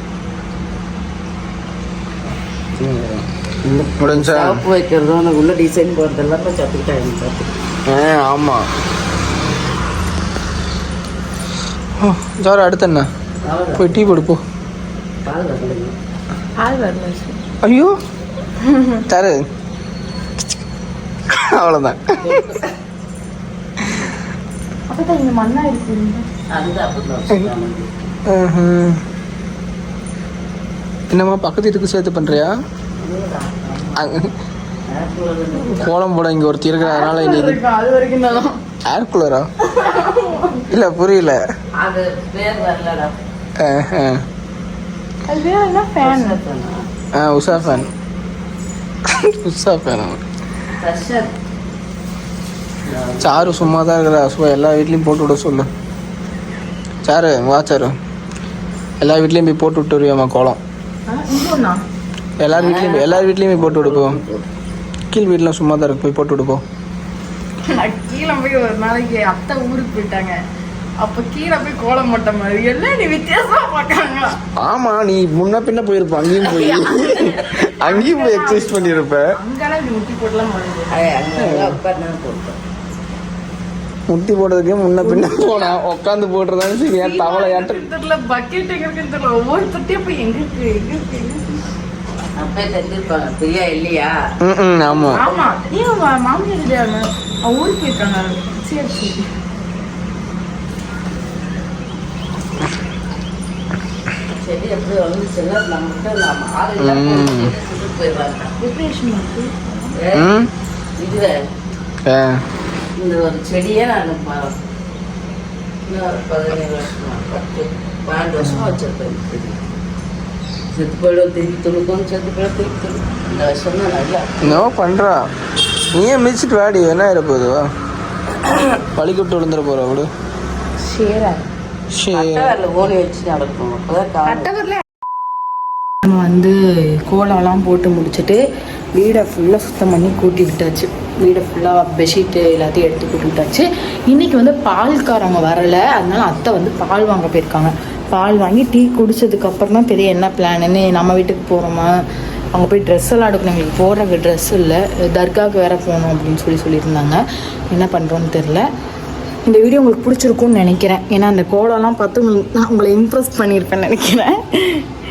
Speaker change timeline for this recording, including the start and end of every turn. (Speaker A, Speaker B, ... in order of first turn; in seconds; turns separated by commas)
Speaker A: 2.8-3.3, Speaker B: 3.6-7.5, Speaker A: 4.0-4.6, Speaker A: 7.9-8.7, Speaker A: 12.0-13.1, Speaker B: 13.4-14.3, Speaker A: 13.8-14.4, Speaker B: 15.2-15.9, Speaker C: 16.6-17.4, Speaker A: 17.6-17.9, Speaker C: 18.6-19.0, Speaker A: 19.1-19.4, Speaker A: 21.3-22.5, Speaker B: 22.2-22.7, Speaker C: 24.9-26.2, Speaker B: 26.5-28.1, Speaker A: 28.3-29.0, Speaker A: 31.1-32.5, Speaker B: 33.0-34.1, Speaker A: 34.0-34.3, Speaker B: 34.9-35.9, Speaker A: 35.6-37.6, Speaker C: 36.8-38.6, Speaker A: 38.9-39.5, Speaker C: 39.7-40.6, Speaker A: 40.7-41.4, Speaker B: 41.8-43.1, Speaker A: 43.6-44.2, Speaker C: 45.3-46.4, Speaker B: 46.0-46.9, Speaker A: 47.1-47.9, Speaker A: 49.0-50.2, Speaker B: 50.8-51.4, Speaker B: 52.9-53.8, Speaker A: 53.2-55.7, Speaker A: 57.0-58.0, Speaker A: 59.0-60.6, Speaker C: 61.1-61.8, Speaker A: 62.4-64.2, Speaker B: 62.5-64.5, Speaker A: 65.1-66.6, Speaker C: 67.7-70.4, Speaker C: 71.0-74.3, Speaker A: 74.6-79.3, Speaker B: 77.1-77.4, Speaker C: 77.8-80.9, Speaker B: 80.9-82.6, Speaker A: 81.4-81.8, Speaker A: 84.1-87.8, Speaker C: 85.0-85.4, Speaker C: 87.0-91.6, Speaker B: 92.4-94.1, Speaker A: 94.4-95.2, Speaker B: 94.9-95.5, Speaker C: 95.2-99.3, Speaker B: 104.3-108.6, Speaker A: 106.8-107.5, Speaker C: 108.6-109.9, Speaker B: 110.0-110.4, Speaker A: 110.1-110.5, Speaker B: 111.0-111.3, Speaker A: 112.1-112.4, Speaker B: 113.0-114.5, Speaker B: 115.8-119.6, Speaker B: 120.7-124.7, Speaker A: 124.4-125.2, Speaker A: 125.9-127.7, Speaker A: 128.9-130.1, Speaker C: 130.8-131.4, Speaker A: 131.9-132.6, Speaker B: 132.1-134.5, Speaker C: 134.3-134.8, Speaker C: 136.0-138.4, Speaker C: 138.9-151.9, Speaker C: 152.5-157.2, Speaker C: 157.7-158.7, Speaker C: 159.5-164.8